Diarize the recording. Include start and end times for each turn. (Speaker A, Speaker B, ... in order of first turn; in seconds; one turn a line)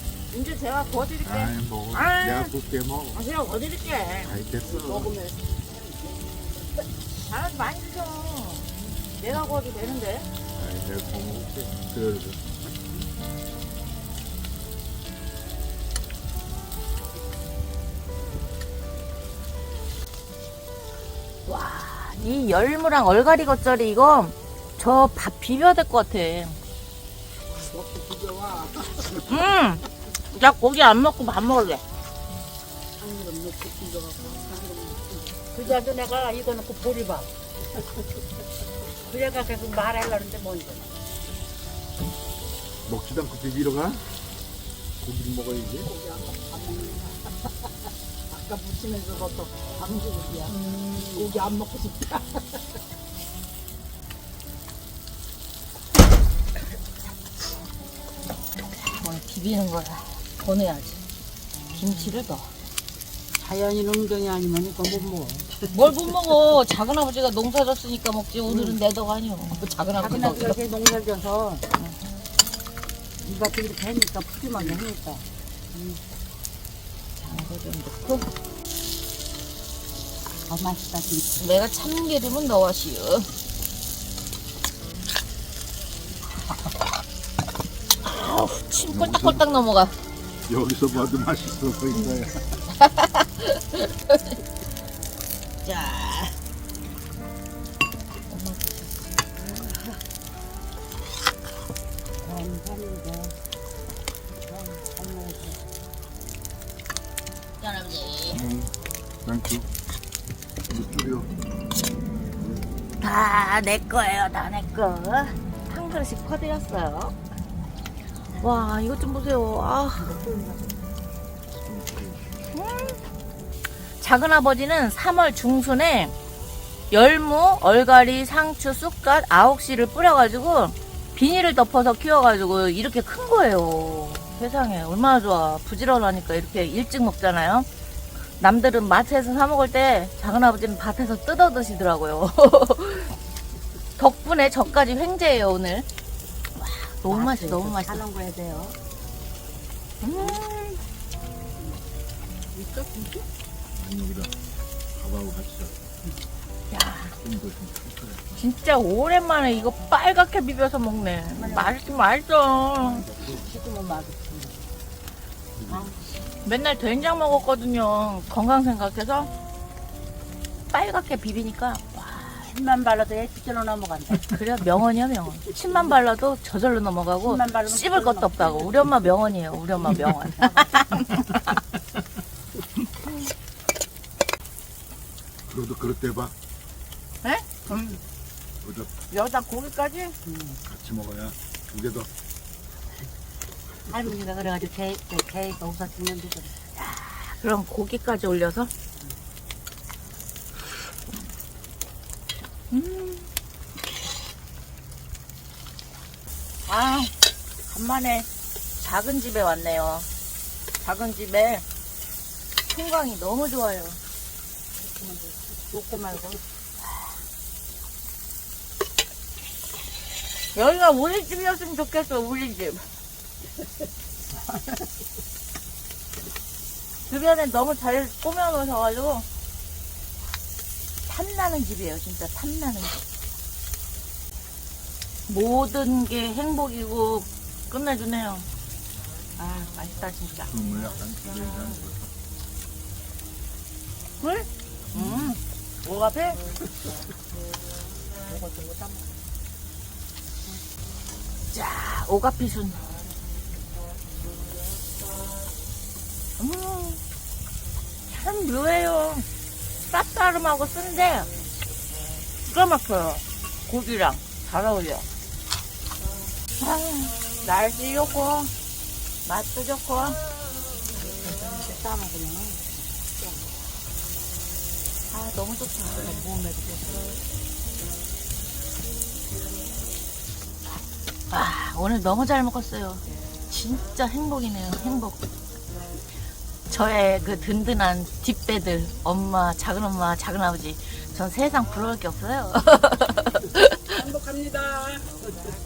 Speaker A: 0.3-2.5
Speaker B: 1.2-3.2
Speaker A: 3.1-4.3
Speaker B: 4.2-5.2
Speaker C: 4.6-6.9
Speaker A: 7.3-10.3
Speaker B: 10.5-12.4
Speaker A: 21.4-26.6
Speaker C: 27.5-29.3
Speaker A: 29.2-31.8
Speaker C: 33.0-37.3
Speaker C: 39.0-41.0
Speaker B: 42.9-44.0
Speaker B: 45.0-45.9
Speaker C: 45.8-47.3
Speaker C: 48.3-52.6
Speaker A: 58.7-61.0
Speaker A: 61.7-62.5
Speaker C: 63.4-65.5
Speaker A: 65.7-70.6
Speaker C: 68.5-68.8
Speaker C: 70.0-71.6
Speaker C: 73.2-76.0
Speaker A: 77.2-78.3
Speaker C: 80.5-81.4
Speaker A: 81.4-83.3
Speaker A: 88.0-90.0
Speaker B: 88.9-89.4
Speaker B: 90.5-92.4
Speaker A: 92.8-94.4
Speaker A: 95.6-96.3
Speaker A: 98.3-98.8
Speaker C: 99.4-99.7
Speaker C: 102.2-103.3
Speaker C: 104.5-105.7
Speaker A: 107.6-108.5
Speaker B: 108.3-108.7
Speaker B: 109.2-109.7
Speaker B: 110.7-111.3
Speaker A: 113.0-117.1
Speaker A: 118.4-120.1
Speaker C: 120.0-120.7
Speaker B: 121.6-122.3
Speaker A: 122.5-123.0
Speaker A: 124.0-126.1
Speaker A: 126.9-137.7
Speaker A: 138.4-143.1
Speaker A: 144.0-145.9
Speaker A: 146.6-148.0
Speaker C: 147.1-148.8
Speaker A: 150.0-150.8
Speaker C: 152.5-153.2
Speaker B: 153.8-154.3
Speaker B: 154.9-155.8
Speaker A: 156.7-157.1
Speaker B: 157.2-158.2
Speaker A: 158.3-163.1
Speaker C: 161.3-161.7
Speaker B: 162.8-163.4
Speaker C: 163.2-164.7
Speaker B: 165.5-165.9
Speaker A: 166.4-169.3
Speaker A: 170.7-172.4
Speaker C: 172.4-174.3
Speaker A: 174.3-181.6
Speaker C: 177.2-179.1
Speaker C: 179.8-181.0
Speaker A: 183.0-183.3
Speaker B: 185.5-186.3
Speaker A: 187.2-188.0
Speaker B: 188.6-188.9
Speaker A: 189.1-190.1
Speaker C: 190.2-190.6
Speaker B: 190.6-192.1
Speaker C: 193.9-196.5
Speaker A: 196.8-198.7
Speaker A: 202.7-203.3
Speaker A: 206.7-207.1
Speaker A: 207.7-210.1
Speaker A: 210.8-211.6
Speaker A: 212.7-214.0
Speaker C: 214.8-216.4
Speaker A: 220.5-222.8
Speaker A: 227.1-229.2
Speaker A: 231.1-233.0
Speaker A: 235.3-238.5
Speaker A: 239.4-240.5
Speaker B: 240.5-242.1
Speaker A: 244.2-246.4
Speaker B: 244.9-245.3
Speaker C: 248.2-249.1
Speaker A: 251.5-252.8
Speaker A: 256.4-257.0
Speaker A: 258.1-259.3
Speaker A: 259.8-261.3
Speaker A: 262.4-265.1
Speaker A: 266.6-268.5
Speaker A: 269.2-270.2
Speaker C: 271.0-273.7
Speaker A: 275.1-276.2
Speaker C: 275.9-277.1
Speaker A: 281.3-285.2
Speaker A: 286.7-293.9
Speaker C: 293.9-295.3